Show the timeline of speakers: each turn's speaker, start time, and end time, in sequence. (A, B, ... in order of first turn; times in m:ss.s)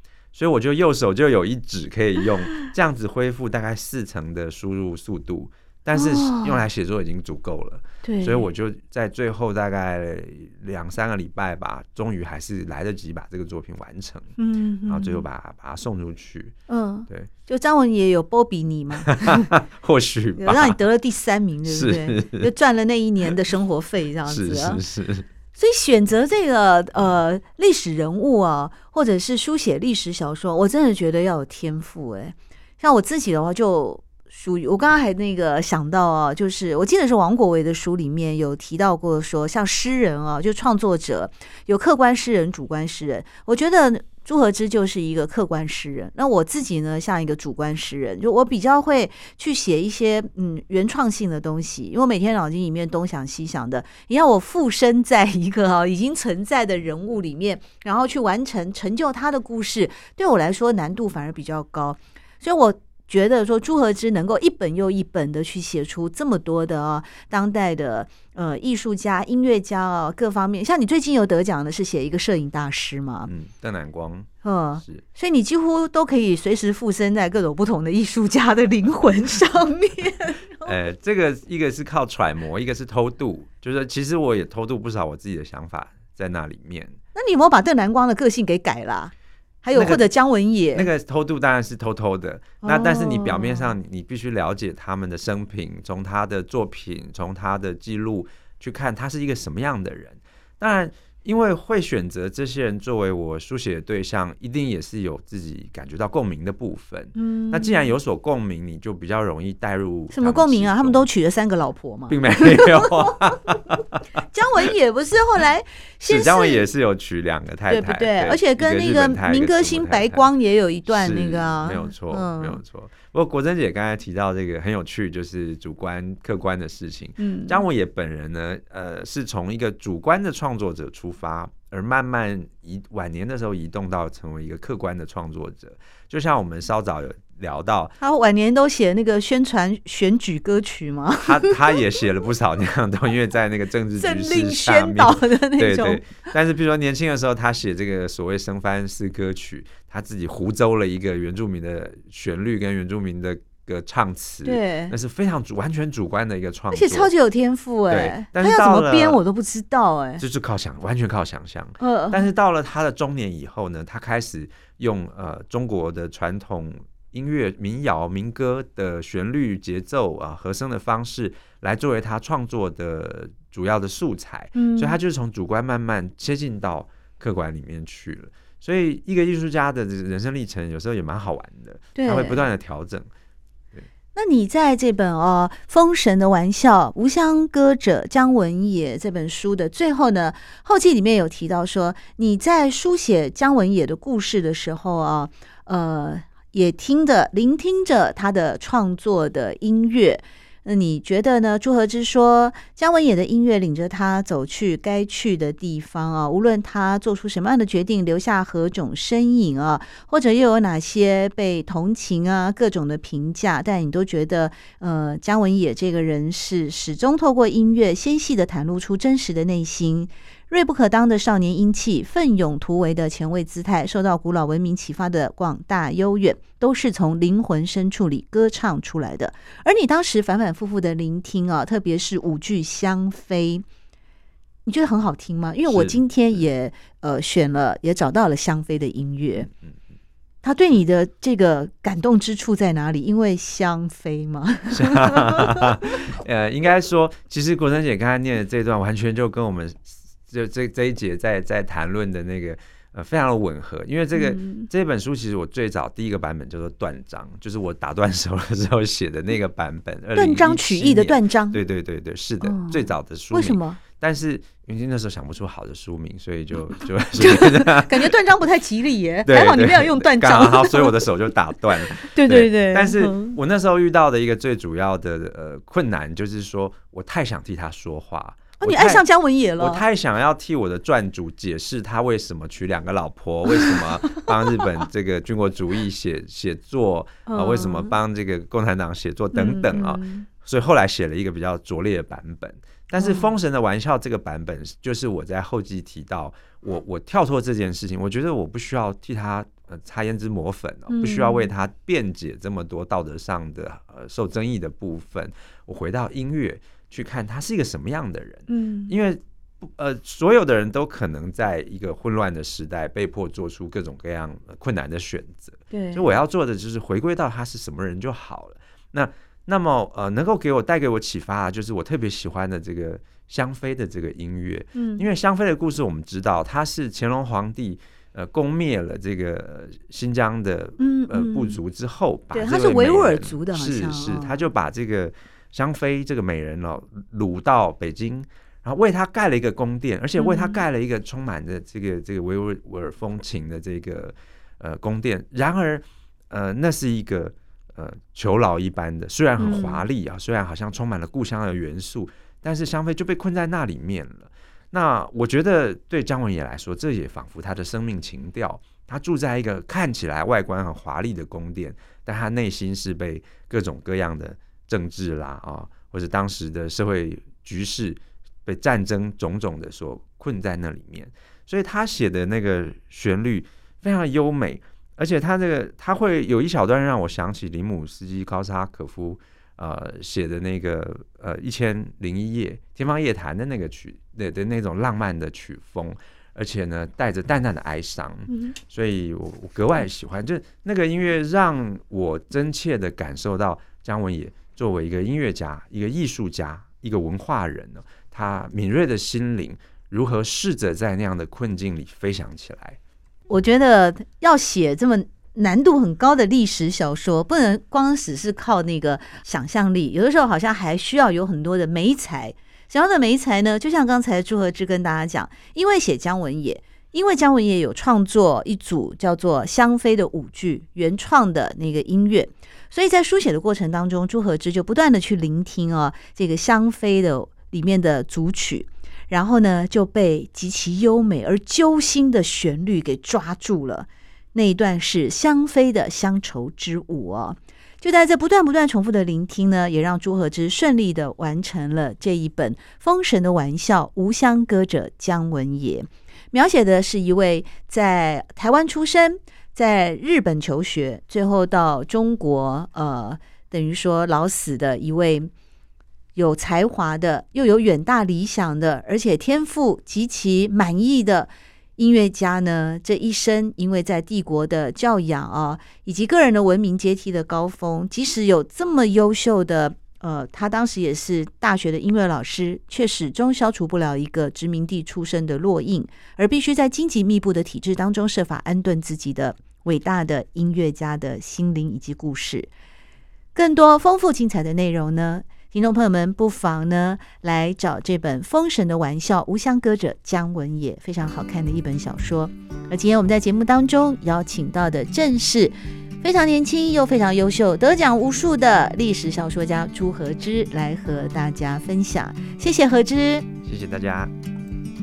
0:00.3-0:14.3 A
0:05.9-0:06.6 B
0:08.0-0:08.5 B
0:14.4-0:15.2 B
0:14.9-0:16.5 A
0:16.7-0:19.5 B
0:19.1-0:20.8 A
0:20.4-0:24.8 B
0:21.7-0:22.5 A
0:24.2-0:25.3 A
0:25.5-1:13.3 B
1:13.3-1:14.3 A
1:14.4-1:20.7 B
1:20.6-1:26.9 A
1:27.1-1:30.9 B
1:29.7-1:30.1 A
1:30.7-1:51.1 A
1:32.6-1:33.7 B
1:47.1-1:47.9 B
1:50.1-1:53.3 B
1:52.1-1:54.0 A
1:54.3-1:56.6 B
1:56.1-2:00.3 A
1:57.7-2:02.6 B
2:00.9-2:17.9 A
2:07.2-2:07.6 B
2:18.0-2:21.8 B
2:21.2-2:37.1 A
2:24.0-2:26.3 B
2:34.4-2:34.9 B
2:36.7-2:40.2 B
2:37.9-2:39.2 A
2:40.2-3:03.1 A
2:41.8-2:42.3 B
2:54.5-2:55.0 B
3:01.9-3:02.4 B
3:04.1-3:53.6 B
3:54.6-3:59.5 B
3:55.7-3:56.0 A
4:00.4-4:06.0 B
4:04.7-4:28.1 A
4:14.1-4:14.7 B
4:20.1-4:21.6 B
4:22.4-4:23.8 B
4:27.1-4:31.0 B
4:29.2-4:39.0 A
4:31.8-4:33.4 B
4:38.6-4:39.8 B
4:39.6-6:42.8 A
4:43.5-4:44.5 B
4:47.2-4:47.9 B
4:49.3-4:50.3 B
4:53.0-4:53.3 B
5:00.9-5:01.5 B
5:08.5-5:09.0 B
5:15.7-5:16.1 B
5:24.7-5:25.0 B
5:30.8-5:31.6 B
5:32.3-5:34.5 B
5:40.2-5:40.6 B
5:49.4-5:49.8 B
6:28.3-6:28.6 B
6:43.3-7:35.3 B
7:36.1-8:02.5 B
8:03.3-8:23.3 B
8:23.4-8:24.1 A